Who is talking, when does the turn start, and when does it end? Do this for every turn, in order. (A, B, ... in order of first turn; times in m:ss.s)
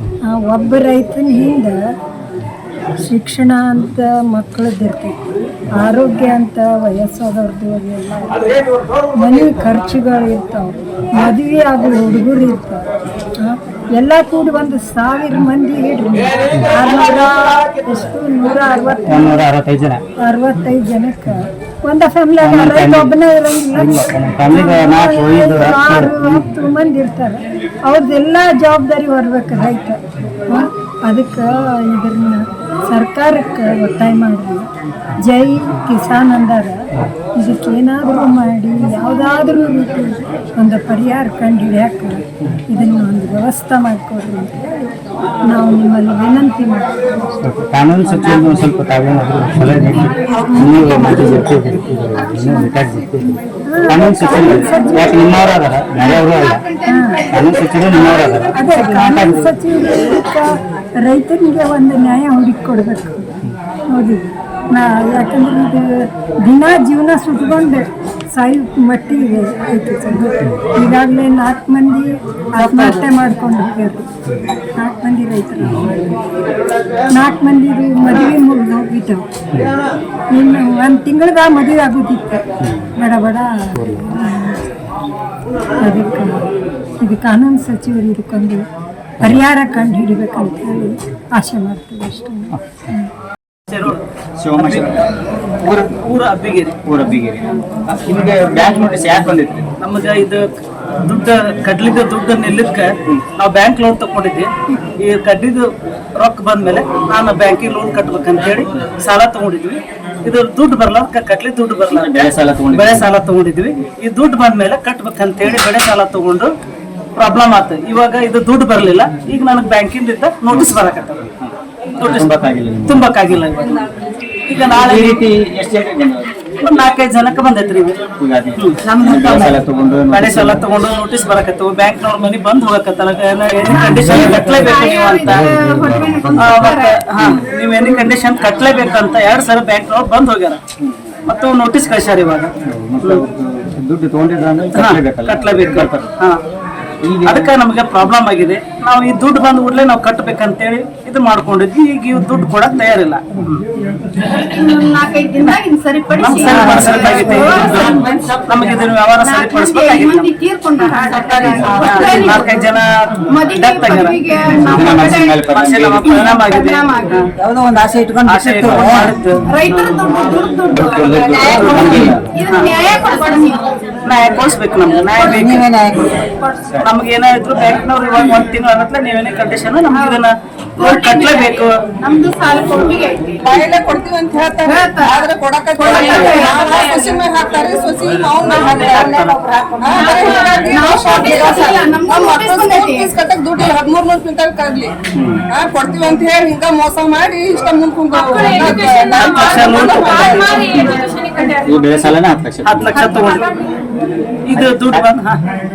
0:00.3-0:01.8 A
0:03.1-0:08.4 A
0:09.2-0:12.8 A
0:13.4-0:19.4 A
0:19.0-0:20.0 B
0:20.2-0:30.0 A
0:22.4-0:23.2 B
0:23.7-0:26.5 B
0:30.5-0:34.7 A
0:35.2-0:36.8 A
0:37.4-0:44.9 A
0:45.5-0:47.1 A
0:47.4-0:56.6 B
0:50.5-0:51.1 A
0:53.7-0:55.2 A
0:56.0-0:58.4 C
0:56.9-0:57.3 A
0:57.3-0:59.6 B
0:58.5-1:03.4 A
1:03.9-1:05.8 A
1:06.4-1:14.0 A
1:14.8-1:16.1 A
1:17.1-1:19.2 A
1:20.3-1:22.4 A
1:23.0-1:24.6 A
1:25.8-1:26.4 A
1:27.0-1:28.6 A
1:29.2-1:33.1 A
1:33.7-1:34.0 D
1:34.4-1:35.0 B
1:34.6-1:34.9 D
1:35.6-1:36.8 D
1:36.8-1:39.7 B
1:39.8-1:40.5 D
1:41.0-1:44.5 D
1:45.0-1:45.6 D
1:46.2-1:56.5 D
1:51.9-1:53.1 B
1:57.2-2:01.2 D
2:00.5-2:03.2 B
2:02.0-2:02.3 D
2:02.8-2:03.8 D
2:04.5-2:05.2 D
2:04.7-2:06.4 B
2:06.6-2:08.0 D
2:08.2-2:10.7 B
2:08.6-2:08.8 D
2:08.8-2:09.6 C
2:10.1-2:15.5 D
2:13.7-2:16.7 B
2:14.5-2:17.0 C
2:16.4-2:20.6 D
2:17.8-2:18.2 C
2:21.3-2:22.5 D
2:22.6-2:26.1 B
2:24.7-2:26.4 D
2:27.0-2:27.5 B
2:27.2-2:33.6 D
2:34.4-2:38.3 C
2:36.2-2:40.3 D
2:39.1-2:47.2 C
2:41.3-2:47.3 D
2:44.6-2:46.4 B
2:48.2-2:50.0 D
2:48.6-2:49.1 B
2:49.4-2:53.7 C
2:50.7-2:52.3 B
2:54.0-2:56.1 D
2:55.2-2:55.5 C
2:56.8-3:01.7 D
2:59.9-3:00.2 C
3:00.8-3:03.4 C
3:03.4-3:14.9 E
3:04.6-3:07.2 C
3:08.4-3:09.1 C
3:08.7-3:09.4 B
3:09.8-3:13.1 C
3:15.2-3:15.4 B
3:15.5-3:20.8 E
3:18.1-3:21.0 C
3:19.2-3:20.9 D
3:21.6-3:23.2 B
3:22.6-3:23.4 D
3:22.8-3:23.5 C
3:24.4-3:25.4 D
3:24.5-3:25.0 B